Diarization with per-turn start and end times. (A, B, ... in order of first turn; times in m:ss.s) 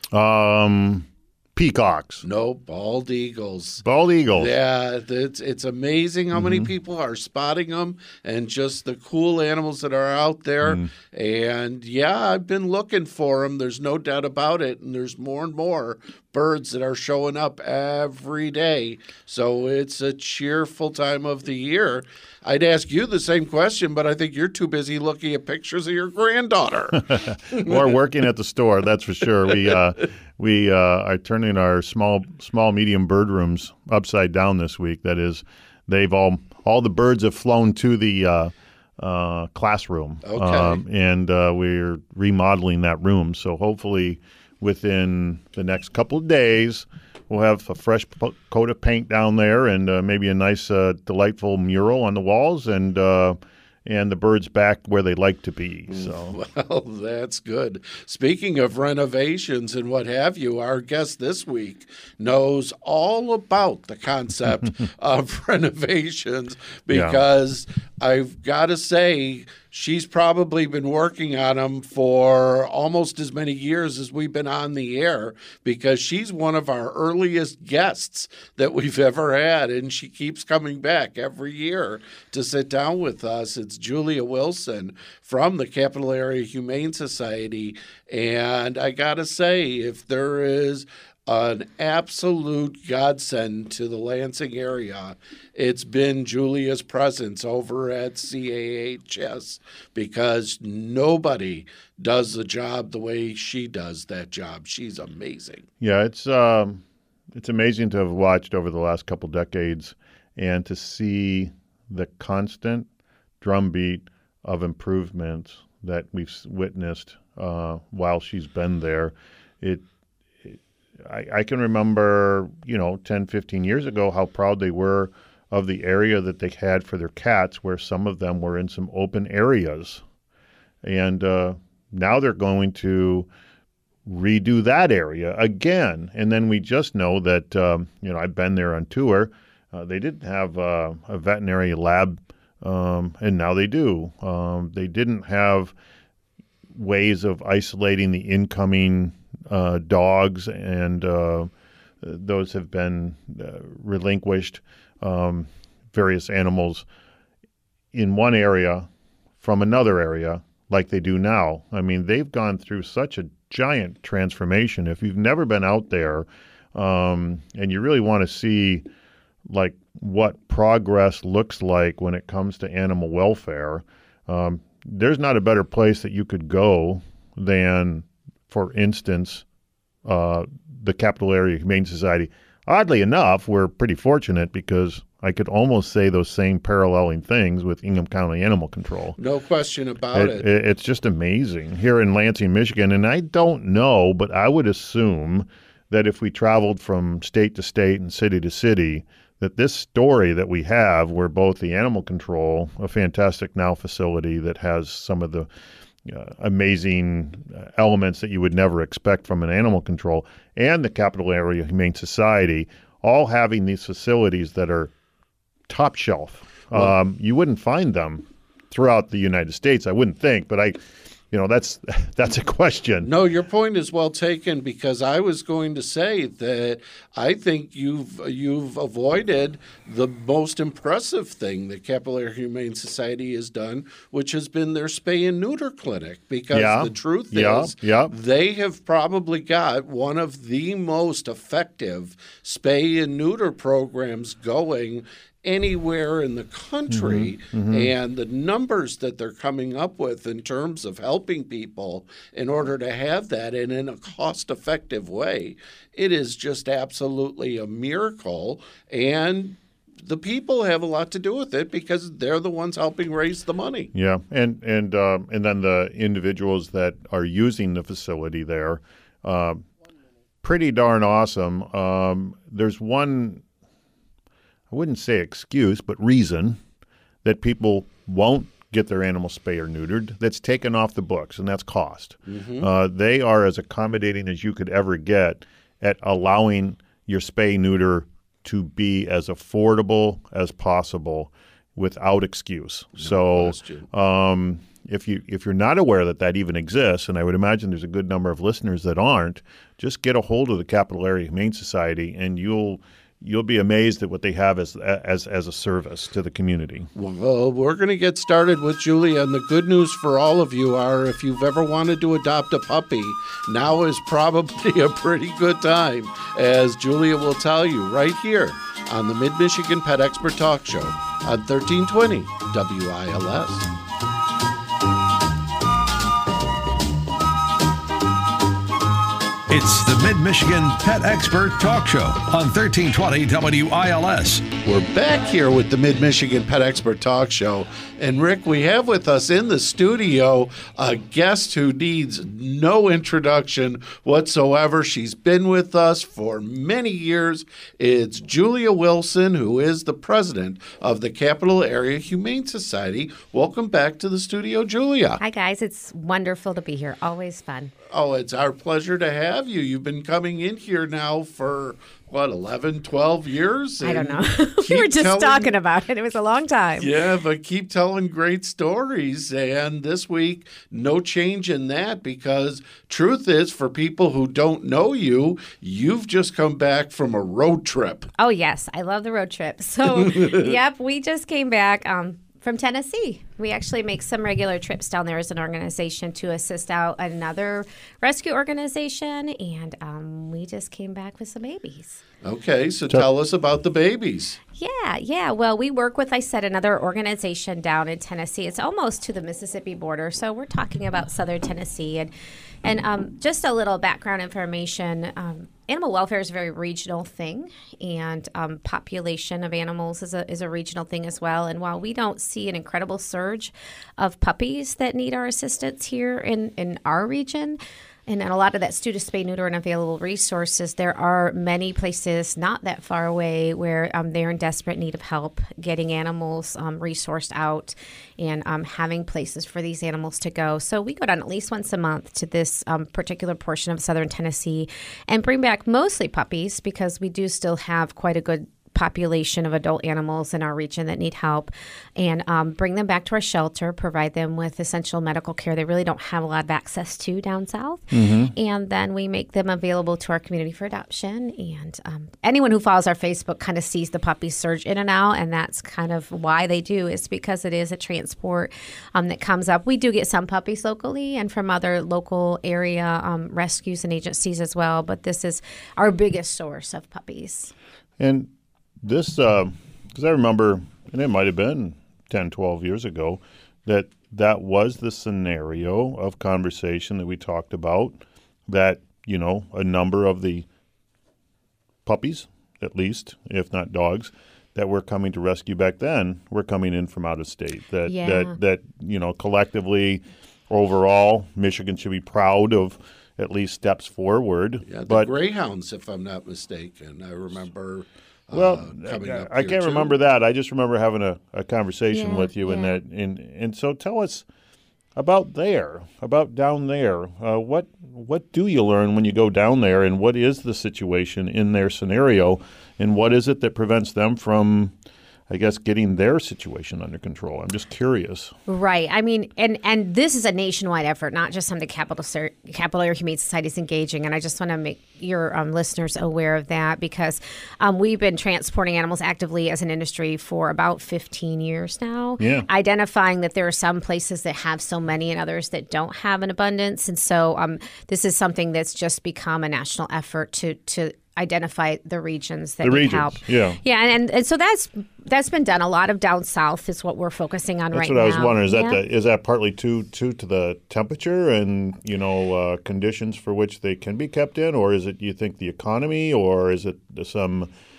0:00.1-0:02.2 A
0:02.2-0:27.7 B
0:03.8-0:04.5 A
0:06.3-0:06.7 A
0:10.6-0:10.9 A
0:26.9-0:56.4 A
0:40.2-0:40.8 B
0:55.9-1:45.7 B
1:06.9-1:07.2 A
1:45.8-1:52.9 A
1:53.4-1:59.8 A
2:00.4-2:10.0 A
2:10.8-2:13.3 A
2:14.0-2:25.7 A
2:26.7-2:31.5 A
2:32.0-2:36.8 A
2:37.9-2:38.9 A
2:39.4-2:48.8 A
2:49.4-2:59.4 A
3:00.0-3:09.2 A
3:09.2-3:10.5 B
3:10.1-3:25.5 A
3:26.0-3:34.9 A
3:35.7-3:40.8 A
3:41.3-3:43.1 A
3:43.0-4:23.9 B
3:56.5-3:58.1 A
4:06.9-4:07.9 A
4:23.9-4:29.6 A
4:30.4-4:33.4 A
4:34.7-4:36.6 A
4:37.2-5:06.9 A
4:42.3-4:42.7 B
4:53.0-4:53.8 B
5:06.9-5:23.6 B
5:29.5-5:34.6 C
5:34.6-5:55.2 B
5:55.2-5:57.7 D
5:57.9-6:05.5 B
6:03.8-6:06.9 D
6:06.8-6:18.1 B
6:18.2-6:32.0 D
6:20.1-6:20.4 B
6:32.2-6:34.4 B
6:34.6-6:42.1 D
6:42.6-7:47.5 D
7:27.9-7:28.3 A
7:48.0-7:48.3 A
7:48.8-8:00.4 A
8:01.8-8:15.1 A
8:07.8-8:08.4 D
8:14.7-8:20.0 B
8:18.3-8:24.2 A
8:21.9-8:22.8 D
8:25.0-8:34.7 A
8:35.3-8:38.3 A
8:38.5-9:08.8 D
8:52.2-8:52.5 A
9:02.6-9:03.6 A
9:07.7-9:17.5 A